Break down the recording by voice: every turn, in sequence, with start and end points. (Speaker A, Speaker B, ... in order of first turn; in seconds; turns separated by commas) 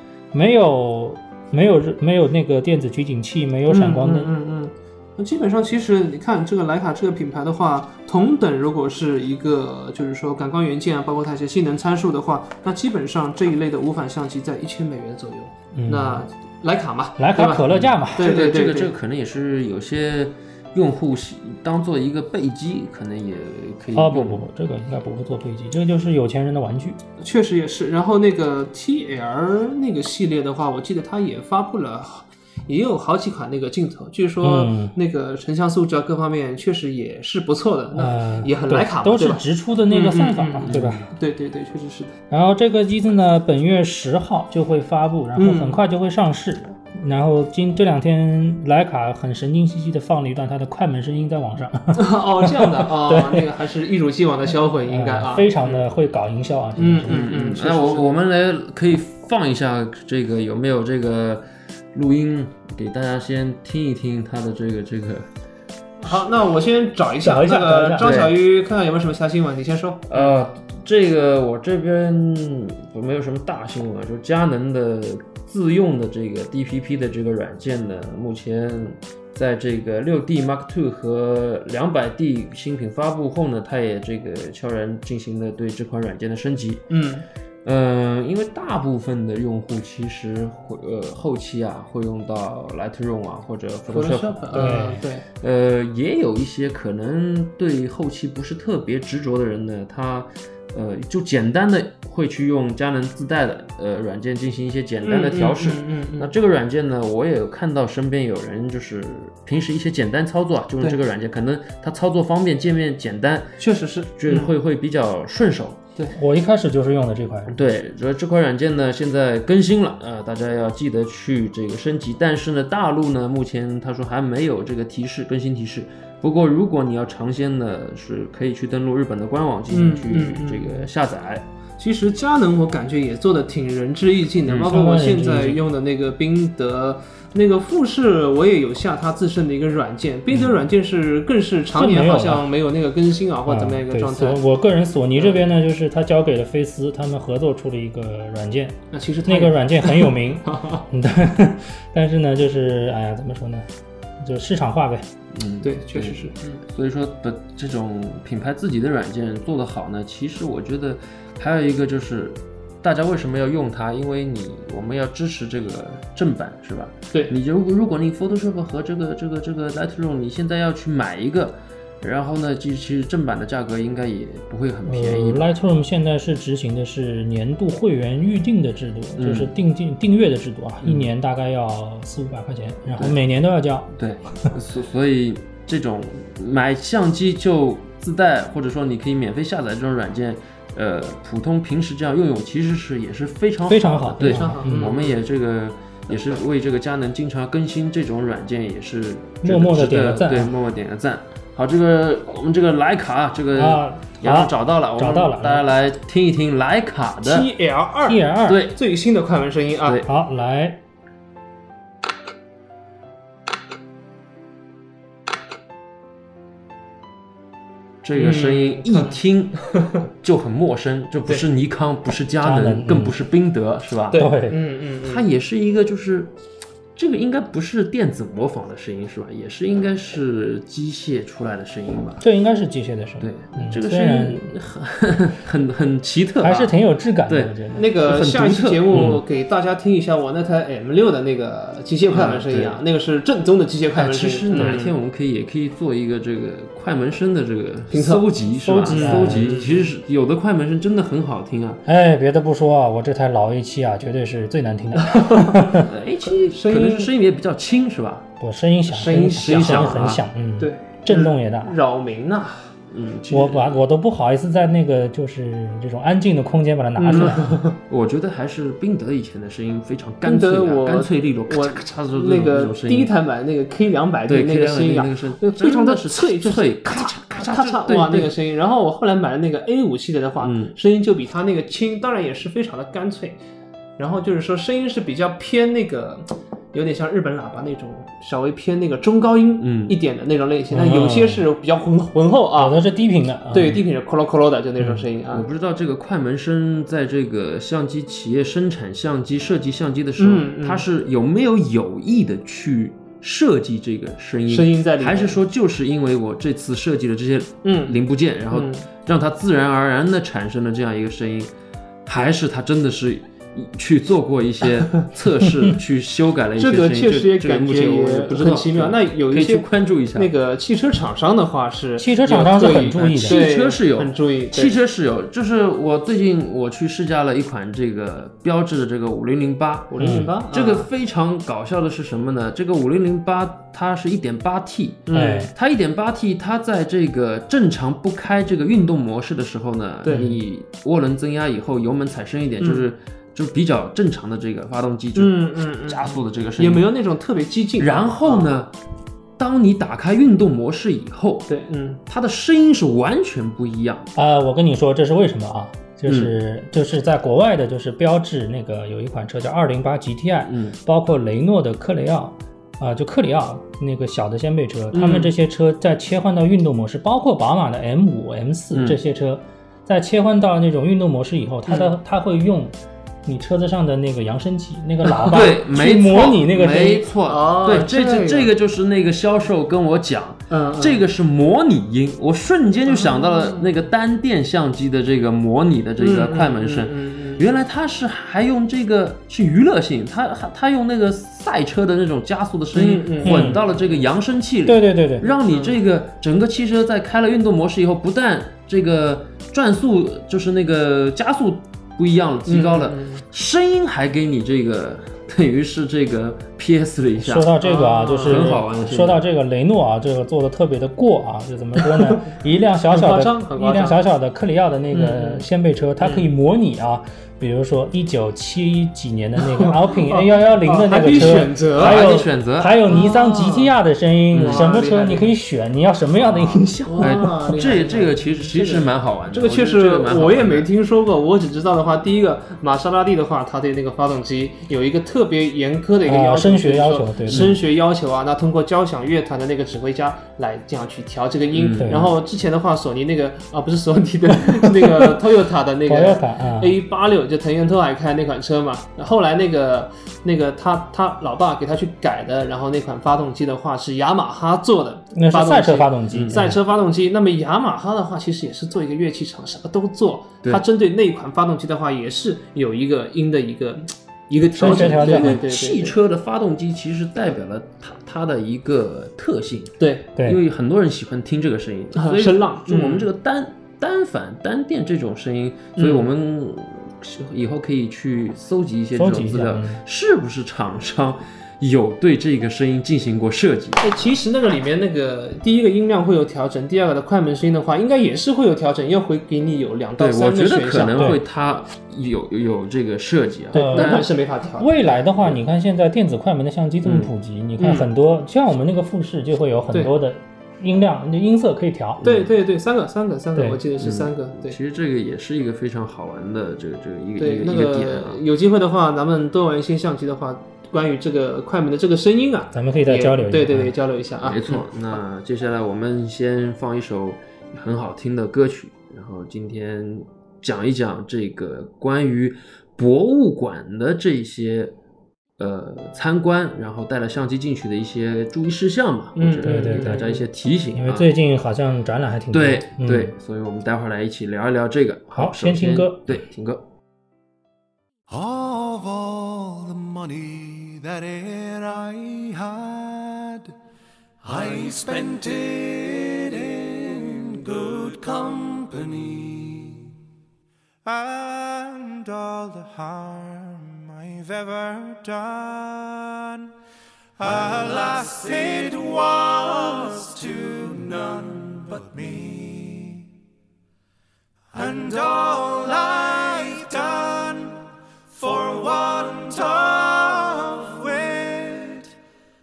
Speaker A: 0.3-4.3, Speaker B: 3.7-18.9, Speaker A: 15.8-16.2, Speaker A: 17.2-18.3, Speaker C: 17.7-24.5, Speaker A: 23.9-27.0, Speaker B: 27.2-42.1, Speaker A: 34.4-34.9, Speaker A: 37.9-41.1, Speaker C: 40.7-41.1, Speaker A: 42.3-53.5, Speaker B: 45.4-45.8, Speaker B: 51.9-55.8, Speaker A: 54.9-57.2, Speaker B: 56.8-58.2, Speaker C: 57.1-65.3, Speaker B: 66.0-70.4, Speaker A: 67.2-68.2, Speaker C: 68.0-68.3, Speaker C: 70.1-86.9, Speaker B: 86.9-87.3, Speaker C: 87.6-94.8, Speaker B: 93.9-95.3, Speaker A: 94.5-95.0, Speaker C: 95.4-113.6, Speaker B: 105.0-106.3, Speaker B: 113.6-114.5, Speaker C: 114.2-115.8, Speaker A: 116.2-117.6, Speaker C: 117.5-131.5, Speaker B: 129.7-130.9, Speaker B: 131.8-144.4, Speaker C: 134.5-134.7, Speaker A: 134.6-135.6, Speaker A: 141.8-142.5, Speaker A: 143.5-153.7, Speaker B: 145.2-145.5, Speaker B: 148.9-150.9, Speaker A: 154.2-155.1, Speaker C: 155.3-175.5, Speaker B: 155.6-156.6, Speaker A: 174.8-183.9, Speaker C: 179.2-179.6, Speaker C: 180.8-181.1, Speaker C: 183.9-207.5, Speaker A: 193.7-194.9, Speaker B: 194.2-195.2, Speaker A: 199.4-200.5, Speaker A: 203.6-205.7, Speaker B: 207.2-210.0, Speaker A: 208.1-208.6, Speaker C: 208.5-208.8, Speaker A: 210.1-210.8, Speaker C: 218.0-219.6, Speaker B: 218.2-220.0, Speaker C: 220.2-224.3, Speaker A: 222.4-223.2, Speaker B: 224.1-225.2, Speaker A: 224.1-224.6, Speaker C: 225.0-226.3, Speaker C: 227.0-232.2, Speaker A: 232.2-234.6, Speaker C: 233.2-239.2, Speaker A: 236.4-237.9, Speaker B: 237.8-244.9, Speaker A: 238.9-239.2, Speaker C: 242.1-242.8, Speaker C: 243.9-251.8, Speaker B: 247.9-248.2, Speaker A: 248.7-249.5, Speaker B: 248.9-249.9, Speaker A: 251.9-255.9, Speaker B: 255.0-255.7, Speaker C: 255.8-258.3, Speaker B: 256.4-257.1, Speaker A: 258.4-261.7, Speaker B: 258.9-262.7, Speaker C: 259.3-260.2, Speaker C: 262.9-263.8, Speaker A: 263.3-267.6, Speaker B: 267.0-267.8, Speaker C: 267.1-273.1, Speaker B: 270.2-283.4, Speaker C: 274.3-278.4, Speaker C: 280.4-280.7, Speaker B: 284.0-292.8, Speaker C: 289.6-290.0, Speaker A: 290.7-291.4, Speaker A: 292.6-293.8, Speaker B: 293.5-295.5, Speaker C: 295.3-311.5, Speaker B: 300.2-300.9, Speaker B: 304.5-305.4, Speaker B: 307.6-308.0, Speaker B: 308.5-308.9, Speaker C: 312.1-320.3, Speaker B: 316.6-324.8, Speaker A: 322.0-323.4, Speaker C: 323.2-346.9, Speaker B: 329.9-330.9, Speaker A: 330.0-330.3, Speaker B: 335.1-335.5, Speaker A: 335.1-335.5, Speaker B: 340.0-340.4, Speaker A: 340.1-340.4, Speaker B: 342.6-342.9, Speaker B: 345.1-348.5, Speaker C: 347.8-348.7, Speaker C: 349.4-351.5, Speaker B: 351.5-352.0, Speaker C: 352.1-354.1, Speaker A: 354.2-377.1, Speaker C: 356.1-356.3, Speaker C: 360.5-360.8, Speaker B: 364.9-365.3, Speaker C: 368.7-369.0, Speaker B: 371.7-371.9, Speaker B: 375.1-375.4, Speaker C: 375.3-407.5, Speaker B: 377.3-378.5, Speaker B: 380.5-381.0, Speaker B: 382.9-383.7, Speaker B: 386.0-387.5, Speaker B: 392.7-393.7, Speaker A: 393.2-393.6, Speaker A: 394.7-395.3, Speaker B: 395.4-395.8, Speaker B: 402.5-403.2, Speaker A: 407.2-427.4, Speaker B: 407.6-408.5, Speaker C: 408.2-409.2, Speaker B: 411.8-414.0, Speaker B: 414.9-415.4, Speaker B: 416.0-416.3, Speaker B: 419.4-422.1, Speaker C: 421.2-423.0, Speaker B: 422.9-423.7, Speaker C: 424.3-424.7, Speaker B: 424.4-425.3, Speaker C: 426.2-430.7, Speaker B: 426.9-466.0, Speaker A: 436.1-437.6, Speaker C: 437.3-437.5, Speaker C: 441.5-442.1, Speaker A: 441.8-442.1, Speaker A: 445.9-446.8, Speaker A: 455.1-456.6, Speaker C: 456.1-456.4, Speaker A: 464.5-465.4, Speaker C: 464.6-483.9, Speaker B: 469.8-470.1, Speaker B: 471.9-473.1, Speaker B: 475.8-476.1, Speaker A: 478.9-479.8, Speaker B: 483.8-491.2, Speaker C: 490.0-494.1, Speaker A: 493.5-494.1, Speaker B: 493.5-494.9, Speaker A: 494.6-502.0, Speaker C: 496.8-497.1, Speaker B: 497.6-497.9, Speaker C: 502.0-502.4, Speaker B: 502.0-504.6, Speaker C: 503.8-508.2, Speaker B: 507.2-514.6, Speaker A: 512.5-513.7, Speaker C: 514.2-524.7, Speaker C: 525.4-531.1, Speaker B: 529.1-530.2, Speaker A: 529.4-530.1, Speaker A: 530.7-533.1, Speaker C: 532.3-536.6, Speaker A: 535.1-536.1, Speaker D: 538.1-543.5, Speaker D: 544.2-549.9, Speaker D: 550.9-556.5, Speaker D: 557.2-563.1, Speaker D: 564.5-571.9